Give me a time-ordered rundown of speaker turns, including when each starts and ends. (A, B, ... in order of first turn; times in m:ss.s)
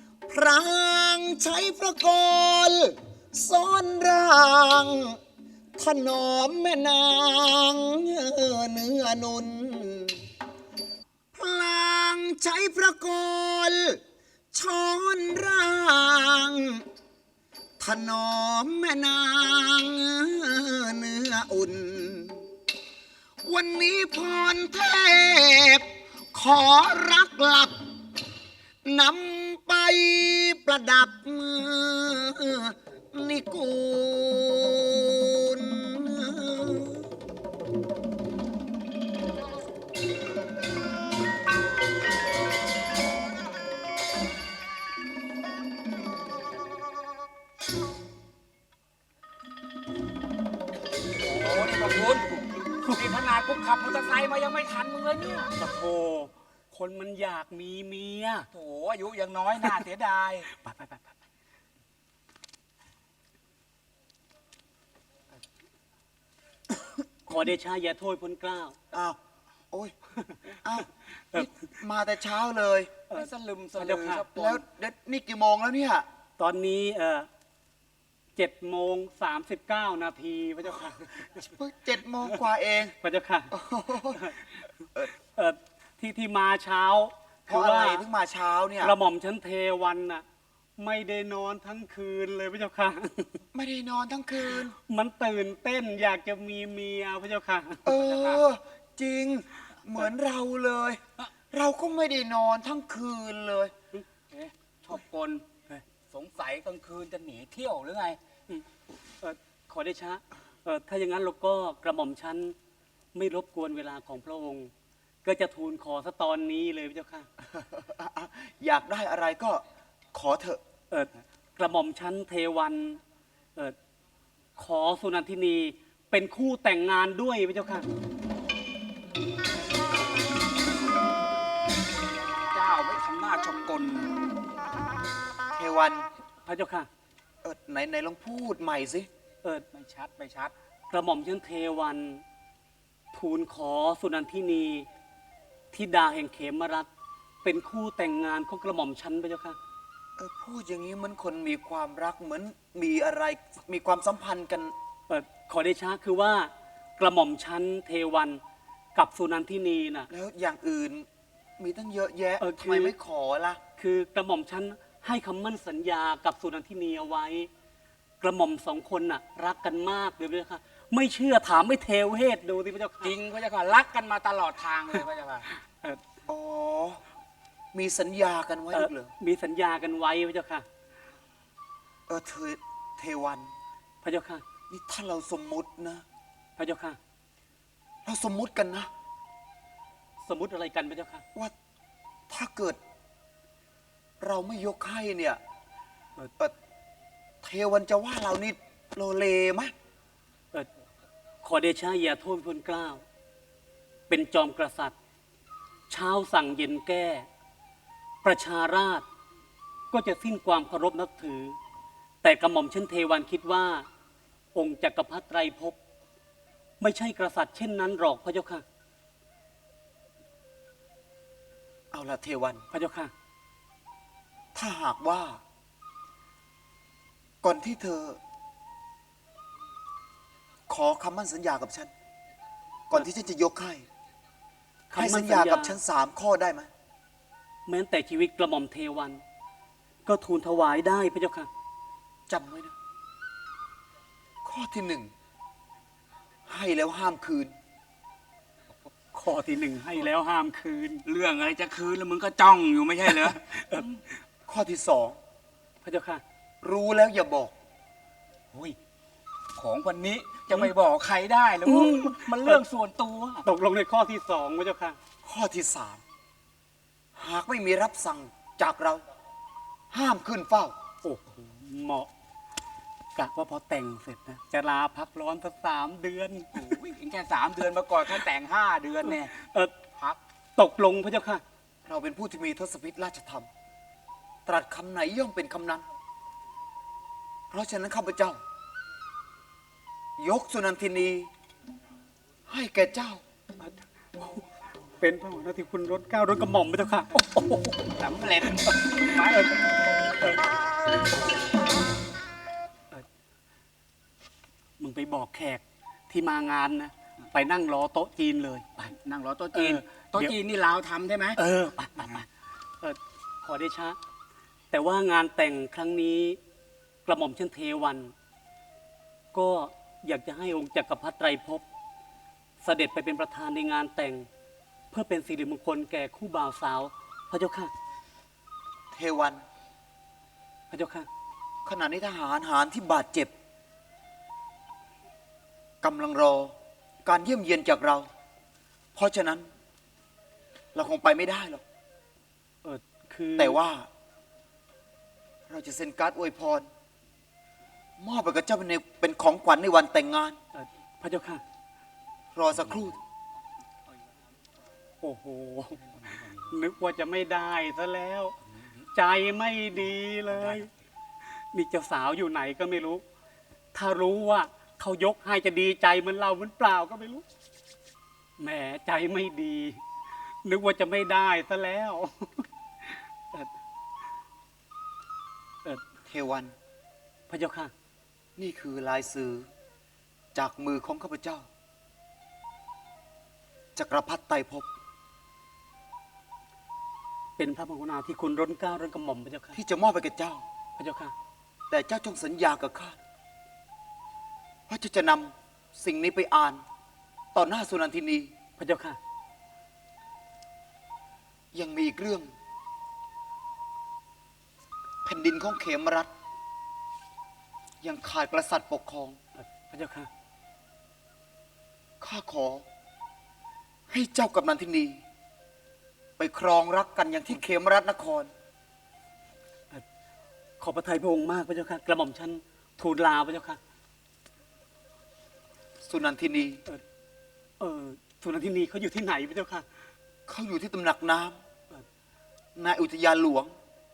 0:00.3-0:05.2 A
0:05.8-0:10.2 A
0:11.3-0:14.0 A
0:14.5-0:16.8 A
0:17.8-0:22.5 A
0:23.4-0:27.8 A
0:28.9-0:37.1 A
0:51.1-0:55.5 B
0:55.6-0:58.5 C
0:58.5-1:00.5 B
1:00.6-1:01.1 C
1:06.8-1:08.8 C
1:08.9-1:09.2 A
1:10.6-1:13.0 A
1:13.1-1:14.3 C
1:13.1-1:14.6 B
1:14.3-1:16.1 A
1:16.4-1:17.3 C
1:18.4-1:21.4 C
1:21.4-1:23.0 A
1:23.0-1:23.5 C
1:23.5-1:24.4 A
1:25.3-1:28.0 C
1:27.5-1:29.0 A
1:28.8-1:30.2 C
1:30.8-1:33.4 C
1:33.5-1:34.8 A
1:34.9-1:37.9 C
1:37.8-1:43.7 A
1:44.2-1:45.4 B
1:46.1-1:48.2 B
1:49.2-1:52.6 C
1:53.2-1:54.7 C
1:55.2-1:57.3 C
1:57.5-2:00.6 A
2:00.9-2:03.0 C
2:04.6-2:07.9 C
2:12.5-2:14.1 B
2:15.6-2:16.1 A
2:16.5-2:16.9 C
2:17.4-2:19.1 A
2:19.7-2:20.5 B
2:20.9-2:22.2 C
2:23.1-2:24.9 C
2:25.7-2:26.9 C
2:27.4-2:29.6 C
2:30.2-2:34.7 A
2:35.1-2:38.4 C
2:39.0-2:40.1 C
2:40.1-2:41.1 A
2:41.6-2:43.6 A
2:42.4-2:42.9 C
2:43.8-2:47.5 C
2:48.2-2:53.1 C
2:53.0-2:55.5 B
2:56.3-2:57.0 A
2:57.7-2:59.1 A
2:58.7-3:00.7 C
3:02.1-3:03.5 A
3:04.0-3:04.4 C
3:04.7-3:06.0 A
3:06.6-3:07.0 C
3:08.0-3:08.9 A
3:10.2-3:11.2 C
3:12.3-3:12.8 A
3:14.2-3:15.4 A
3:17.4-3:19.7 A
3:21.4-3:23.0 C
3:24.1-3:25.0 C
3:25.9-3:27.3 C
3:28.2-3:29.0 C
3:29.9-3:31.6 C
3:32.2-3:33.9 C
3:34.6-3:35.8 C
3:36.8-3:38.6 C
3:41.9-3:42.6 A
3:42.7-3:43.1 C
3:44.6-3:45.4 A
3:47.4-3:48.2 A
3:50.7-3:51.9 A
3:52.9-3:53.9 A
3:54.9-3:55.8 C
3:54.9-3:56.7 A
3:57.7-3:59.2 C
4:00.1-4:01.5 C
4:02.3-4:02.8 A
4:04.4-4:05.1 A
4:06.5-4:07.6 A
4:09.1-4:11.0 C
4:11.1-4:13.8 B
4:13.3-4:13.8 C
4:14.5-4:15.2 A
4:15.8-4:16.2 C
4:16.6-4:17.5 A
4:19.6-4:23.4 B
4:21.6-4:22.6 C
4:23.4-4:25.0 C
4:25.2-4:26.0 A
4:27.2-4:29.0 A
4:29.9-4:30.7 A
4:31.0-4:32.1 C
4:33.2-4:36.8 C
4:36.6-4:39.3 B
4:39.0-4:39.7 C
4:40.6-4:41.4 C
4:41.9-4:43.5 A
4:44.5-4:45.8 A
4:47.5-4:48.4 A
4:50.2-4:51.3 A
4:52.5-4:53.2 A
4:53.6-4:54.5 C
4:55.0-4:57.9 C
4:58.0-4:59.5 B
4:58.5-5:00.5 C
5:04.8-5:08.9 C
5:09.0-5:11.4 B
5:09.5-5:10.4 C
5:11.4-5:12.3 C
5:12.8-5:14.0 C
5:14.7-5:16.4 C
5:17.1-5:18.1 C
5:19.3-5:21.6 C
5:22.6-5:24.3 C
5:24.9-5:27.7 C
5:28.9-5:29.4 A
5:30.7-5:31.1 C
5:31.6-5:33.3 A
5:35.8-5:38.1 A
5:39.0-5:39.5 A
5:40.7-5:41.6 A
5:42.6-5:43.6 C
5:43.4-5:43.9 A
5:45.5-5:46.7 A
5:48.0-5:50.4 A
5:50.6-5:51.4 C
5:52.3-5:53.0 A
5:55.0-5:55.8 C
5:56.5-5:58.4 C
5:59.0-6:00.7 C
6:01.5-6:03.0 C
6:03.7-6:07.2 C
6:08.4-6:09.8 C
6:10.4-6:13.5 C
6:16.1-6:16.6 A
6:17.3-6:17.7 C
6:18.4-6:19.5 A
6:20.3-6:21.5 A
6:23.8-6:24.7 A
6:27.4-6:29.6 C
6:29.6-6:30.4 A
6:30.8-6:31.1 C
6:31.7-6:33.0 A
6:34.7-6:36.6 A
6:37.3-6:38.3 A
6:38.6-6:39.0 C
6:41.5-6:42.3 A
6:45.0-6:46.1 A
6:47.8-6:49.2 A
6:49.4-6:50.1 C
6:52.0-6:52.6 A
6:53.9-6:55.0 A
6:56.2-6:58.3 A
7:00.6-7:03.6 C
7:05.8-7:06.6 A
7:07.6-7:09.7 C
7:10.3-7:11.4 A
7:12.6-7:13.6 A